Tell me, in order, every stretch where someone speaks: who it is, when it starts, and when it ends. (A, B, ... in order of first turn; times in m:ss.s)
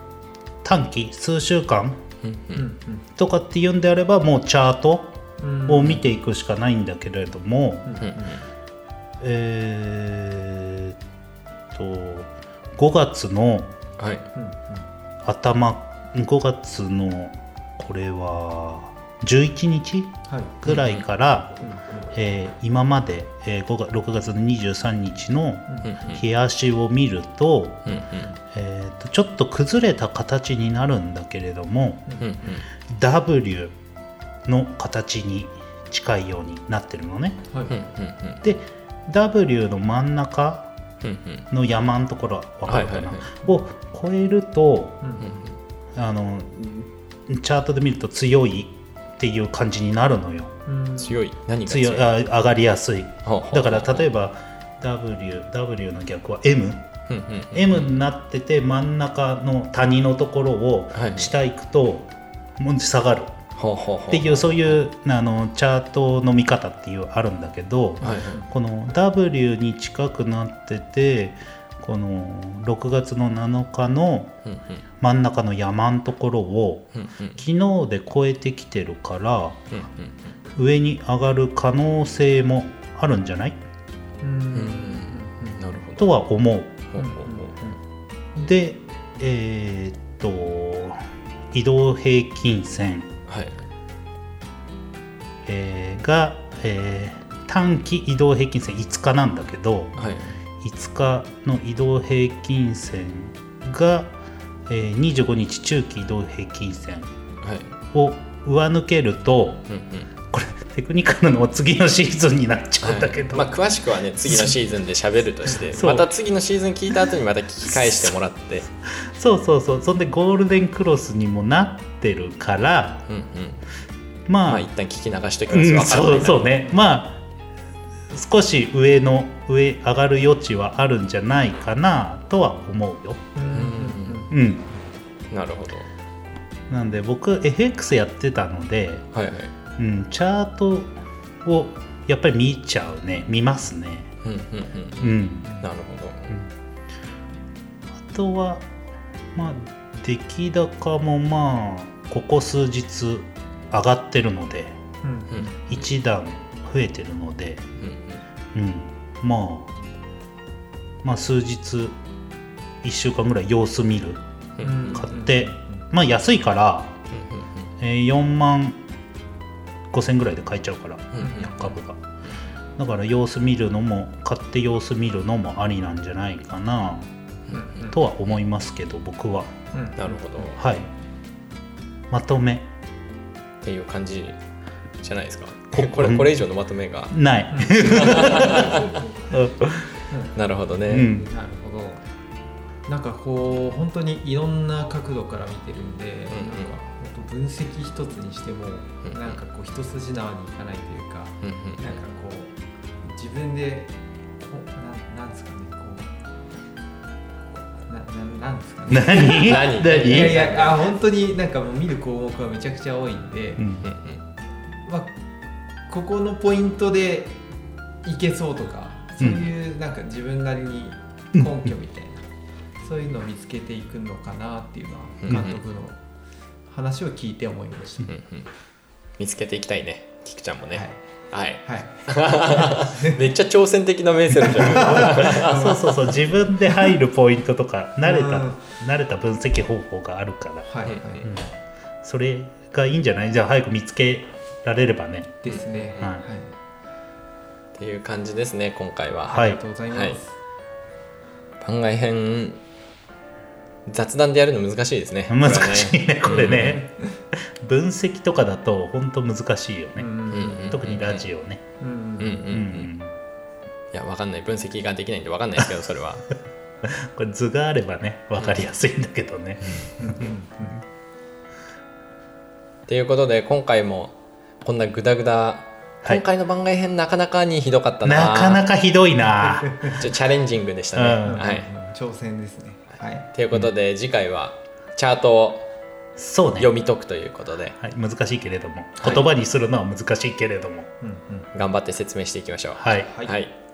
0:00.6-0:02.0 A
0:02.2-0:02.6 B
0:02.5-0:03.0 C
0:03.2-0:07.9 A
0:05.4-0:06.1 C
0:07.8-0:08.4 C
0:08.0-0:08.4 B
0:09.2-0:11.0 A
0:11.7-0:13.7 A
0:14.0-0:14.3 B
0:14.3-0:14.9 C
0:15.2-0:28.0 A
0:20.3-0:20.6 C
0:20.6-0:21.0 B
0:21.6-0:22.1 C
0:25.7-0:26.2 C
0:25.8-0:26.2 B
0:27.8-0:28.3 B
0:28.5-0:32.1 A
0:32.2-0:32.6 B
0:32.8-0:33.7 A
0:34.4-0:37.4 A
0:37.5-0:37.8 C
0:37.7-0:38.4 B
0:38.4-0:40.7 A
0:41.0-0:41.5 B
0:41.5-0:45.0 A
0:42.7-0:43.3 B
0:45.0-0:45.4 C
0:45.2-0:45.5 B
0:45.9-0:50.5 A
0:50.6-0:51.2 C
0:51.0-0:52.1 B
0:51.7-0:56.9 A
0:53.2-0:54.0 B
0:57.1-0:57.8 B
0:57.5-1:03.4 A
1:00.9-1:01.3 B
1:03.6-1:04.8 B
1:04.1-1:14.4 A
1:08.0-1:08.4 B
1:08.1-1:08.5 C
1:14.4-1:14.8 B
1:15.0-1:19.7 A
1:16.9-1:17.4 B
1:19.7-1:20.1 B
1:20.6-1:23.6 A
1:24.2-1:25.7 C
1:24.5-1:26.1 B
1:26.0-1:26.9 A
1:26.9-1:27.5 B
1:27.0-1:27.8 C
1:28.3-1:33.1 A
1:33.3-1:33.6 B
1:35.4-1:40.0 A
1:40.0-1:40.3 B
1:40.6-1:44.1 A
1:44.7-1:47.1 A
1:47.4-1:47.7 B
1:47.9-1:49.6 A
1:49.7-1:50.1 B
1:50.3-1:53.5 A
1:52.8-1:58.7 B
1:54.2-1:54.5 A
1:55.7-1:56.1 A
1:57.7-1:58.2 A
1:58.8-2:03.1 A
2:03.1-2:03.6 B
2:04.3-2:04.7 A
2:04.5-2:06.5 B
2:05.5-2:07.2 A
2:08.1-2:13.3 A
2:13.3-2:14.3 C
2:13.5-2:14.3 B
2:14.3-2:14.7 A
2:15.3-2:15.9 B
2:16.7-2:19.1 A
2:19.1-2:19.5 B
2:19.8-2:24.1 A
2:24.2-2:26.4 B
2:25.0-2:25.6 A
2:28.0-2:28.7 A
2:29.3-2:34.8 A
2:35.0-2:35.6 C
2:35.7-2:37.7 A
2:37.8-2:38.2 B
2:38.5-2:39.7 A
2:41.0-2:42.0 A
2:42.8-2:44.2 A
2:44.6-2:44.9 B
2:44.6-2:45.8 C
2:44.8-2:46.9 A
2:47.1-2:47.7 B
2:47.8-2:48.8 A
2:49.9-2:52.0 A
2:51.2-2:51.6 B
2:51.2-2:51.6 C
2:52.8-2:57.1 A
2:57.5-2:58.0 C
2:57.9-2:59.5 A
2:59.7-3:00.5 C
3:00.0-3:00.6 B
3:00.5-3:00.9 A
3:02.1-3:02.7 A
3:03.6-3:04.4 B
3:05.0-3:07.1 B
3:05.7-3:06.4 A
3:07.1-3:09.9 A
3:07.5-3:09.2 C
3:07.9-3:08.9 B
3:10.1-3:10.3 C
3:10.4-3:11.1 B
3:10.9-3:11.3 A
3:10.9-3:12.0 C
3:12.9-3:26.1 C
3:16.3-3:16.7 B
3:19.0-3:19.3 B
3:21.4-3:22.0 B
3:27.5-3:33.7 C
3:28.9-3:30.4 A
3:29.2-3:30.9 B
3:33.6-3:33.9 A
3:33.8-3:34.2 B
3:34.8-3:35.1 C
3:35.9-3:37.4 C
3:38.0-3:42.2 C
3:39.2-3:39.4 A
3:41.3-3:41.7 A
3:42.8-3:46.0 C
3:45.2-3:45.6 B
3:46.7-3:48.1 C
3:48.1-3:48.5 B
3:49.2-3:55.6 B
3:50.7-3:51.0 C
3:51.6-3:53.2 C
3:54.5-3:56.2 C
3:55.2-4:00.7 A
3:58.0-3:58.6 C
4:00.7-4:01.3 C
4:01.2-4:01.5 A
4:02.0-4:05.5 A
4:05.4-4:06.5 C
4:07.7-4:10.2 B
4:09.3-4:10.4 C
4:09.3-4:09.6 A
4:11.6-4:12.6 B
4:13.8-4:16.8 B
4:15.3-4:16.8 A
4:16.2-4:17.2 C
4:17.6-4:20.1 A
4:20.0-4:20.8 C
4:20.3-4:21.2 B
4:20.7-4:21.6 A
4:21.8-4:22.5 C
4:22.2-4:22.9 B
4:22.5-4:23.1 A
4:23.9-4:26.3 B
4:26.8-4:30.2 A
4:30.0-4:30.8 C
4:32.9-4:38.6 B
4:38.0-4:40.1 A
4:39.4-4:40.0 C
4:39.8-4:41.7 B
4:40.9-4:41.4 A
4:41.2-4:43.3 C
4:43.3-4:45.7 B
4:46.2-4:46.7 A
4:46.6-4:47.8 B
4:47.8-4:50.9 A
4:51.0-4:51.5 C
4:51.5-4:53.5 B
4:52.8-4:53.1 A
4:53.0-4:53.3 C